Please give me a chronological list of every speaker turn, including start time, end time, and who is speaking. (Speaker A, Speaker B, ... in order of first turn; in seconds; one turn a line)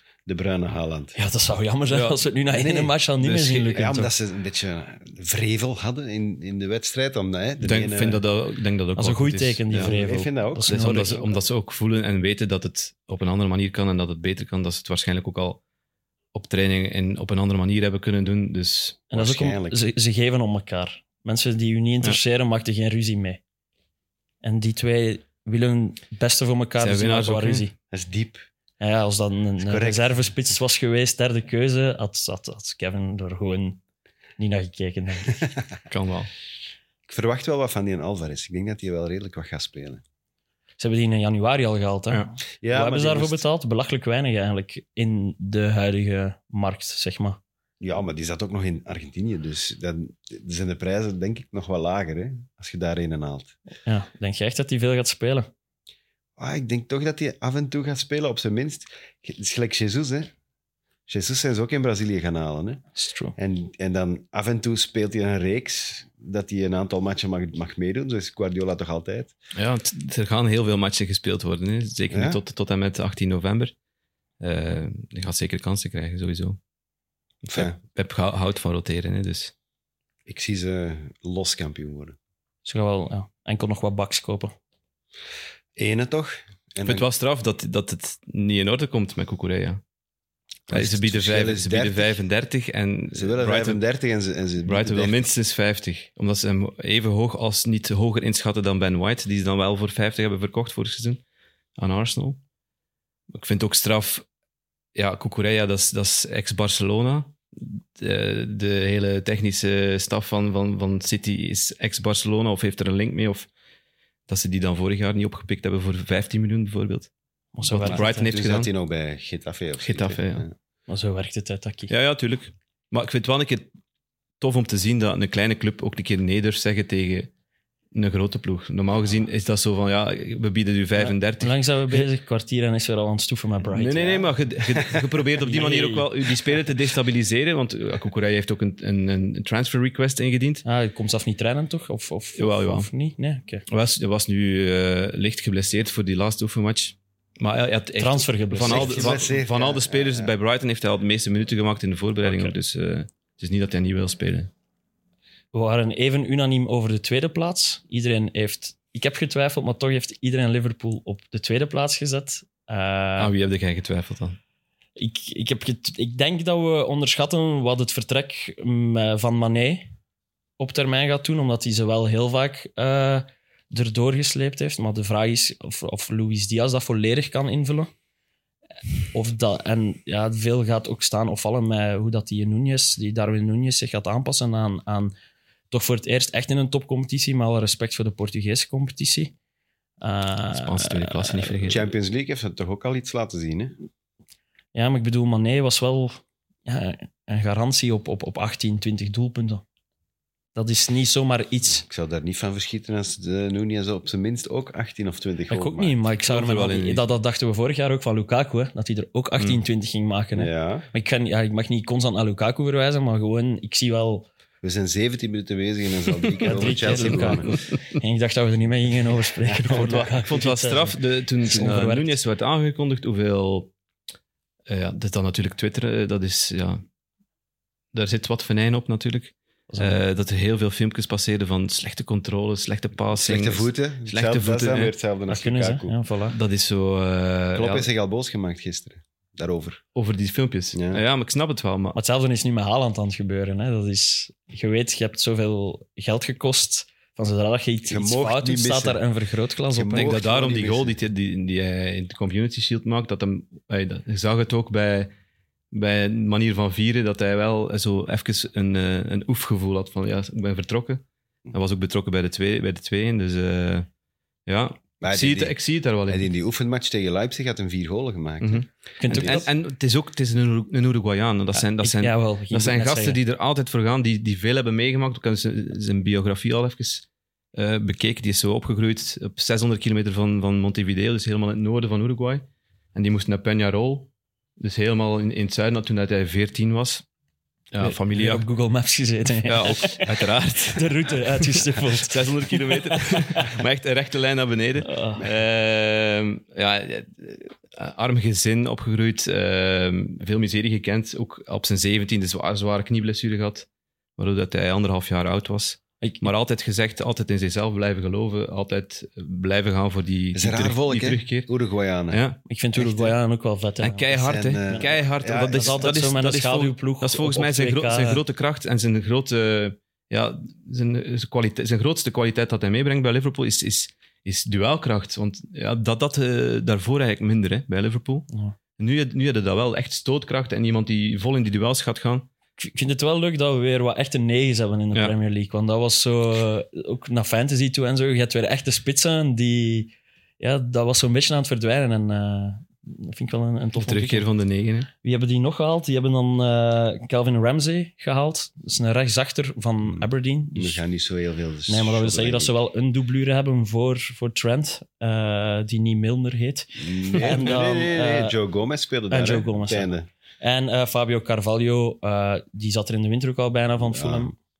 Speaker A: 0.2-1.1
Speaker B: 1.1-4.1
Speaker C: 1.9-2.2
Speaker A: 2.5-2.9
Speaker C: 3.2-3.9
Speaker A: 3.7-8.2
Speaker C: 7.6-9.9
Speaker B: 8.9-11.2
Speaker A: 9.7-11.1
Speaker C: 10.7-15.6
Speaker C: 16.3-19.1
Speaker B: 19.1-23.4
Speaker A: 19.1-19.8
Speaker B: 24.4-27.7
Speaker C: 26.8-27.7
Speaker A: 27.9-28.4
Speaker B: 28.8-33.8
Speaker A: 29.6-30.1
Speaker B: 34.4-35.4
Speaker C: 35.9-36.3
Speaker A: 37.1-40.0
Speaker B: 40.8-47.4
Speaker A: 42.6-43.4
Speaker A: 47.8-53.5
Speaker B: 53.9-55.5
Speaker A: 56.4-60.3
Speaker A: 61.1-62.8
Speaker B: 63.0-63.3
Speaker A: 63.4-69.3
Speaker C: 69.5-73.7
Speaker A: 72.1-72.4
Speaker C: 74.4-76.6
Speaker C: 77.5-79.5
Speaker A: 77.5-77.7
Speaker A: 80.3-82.2
Speaker B: 82.6-84.5
Speaker A: 85.8-87.0
Speaker C: 86.8-89.8
Speaker A: 90.7-92.2
Speaker C: 90.7-93.8
Speaker A: 93.1-95.3
Speaker C: 94.6-101.2
Speaker C: 101.8-102.4
Speaker C: 103.3-104.2
Speaker C: 104.9-113.5
Speaker C: 114.3-117.1
Speaker B: 117.5-118.3
Speaker C: 117.7-118.7
Speaker A: 117.8-120.5
Speaker C: 119.8-120.4
Speaker B: 120.9-121.9
Speaker C: 121.9-123.7
Speaker C: 124.4-127.3
Speaker C: 127.9-132.1
Speaker B: 131.0-134.3
Speaker C: 133.7-140.6
Speaker B: 135.4-136.0
Speaker B: 140.6-143.6
Speaker C: 142.3-142.9
Speaker C: 143.7-154.5
Speaker B: 148.0-149.2
Speaker A: 148.6-150.3
Speaker B: 152.2-152.5
Speaker B: 155.5-163.3
Speaker C: 163.2-164.4
Speaker B: 165.0-169.9
Speaker B: 170.6-177.9
Speaker B: 179.1-185.1
Speaker B: 185.7-189.3
Speaker B: 190.0-191.5
Speaker C: 190.5-191.8
Speaker A: 191.6-193.8
Speaker B: 194.7-199.6
Speaker B: 200.5-201.8
Speaker A: 201.8-206.0
Speaker B: 205.5-214.3
Speaker C: 206.3-207.1
Speaker A: 210.3-210.8
Speaker A: 214.6-217.5
Speaker B: 216.4-222.2
Speaker C: 216.6-217.6
Speaker C: 219.7-223.7
Speaker C: 224.7-226.8
Speaker C: 227.9-234.9
Speaker B: 229.7-230.0
Speaker A: 233.1-235.9
Speaker B: 235.3-236.3
Speaker C: 236.3-237.9
Speaker A: 237.5-239.8
Speaker C: 239.9-241.9
Speaker A: 240.7-241.0
Speaker B: 241.9-250.2
Speaker A: 247.9-249.0
Speaker A: 249.7-250.9
Speaker C: 249.9-255.1
Speaker C: 255.7-263.9
Speaker C: 264.5-266.3
Speaker A: 265.0-269.4
Speaker C: 268.4-287.0
Speaker B: 269.0-269.5
Speaker B: 271.5-273.2
Speaker C: 287.7-288.4
Speaker B: 287.8-293.5
Speaker C: 289.4-311.5
Speaker B: 294.8-295.2
Speaker B: 306.0-306.3
Speaker A: 310.3-312.2
Speaker C: 312.1-312.4
Speaker B: 312.5-314.9
Speaker A: 312.8-313.1
Speaker C: 313.8-332.3
Speaker A: 314.1-316.0
Speaker B: 315.4-318.2
Speaker B: 332.6-344.3
Speaker C: 343.8-344.9
Speaker B: 345.0-350.8
Speaker A: 349.8-352.5
Speaker B: 351.7-358.4
Speaker A: 356.8-360.1
Speaker B: 359.1-364.3
Speaker A: 363.8-364.3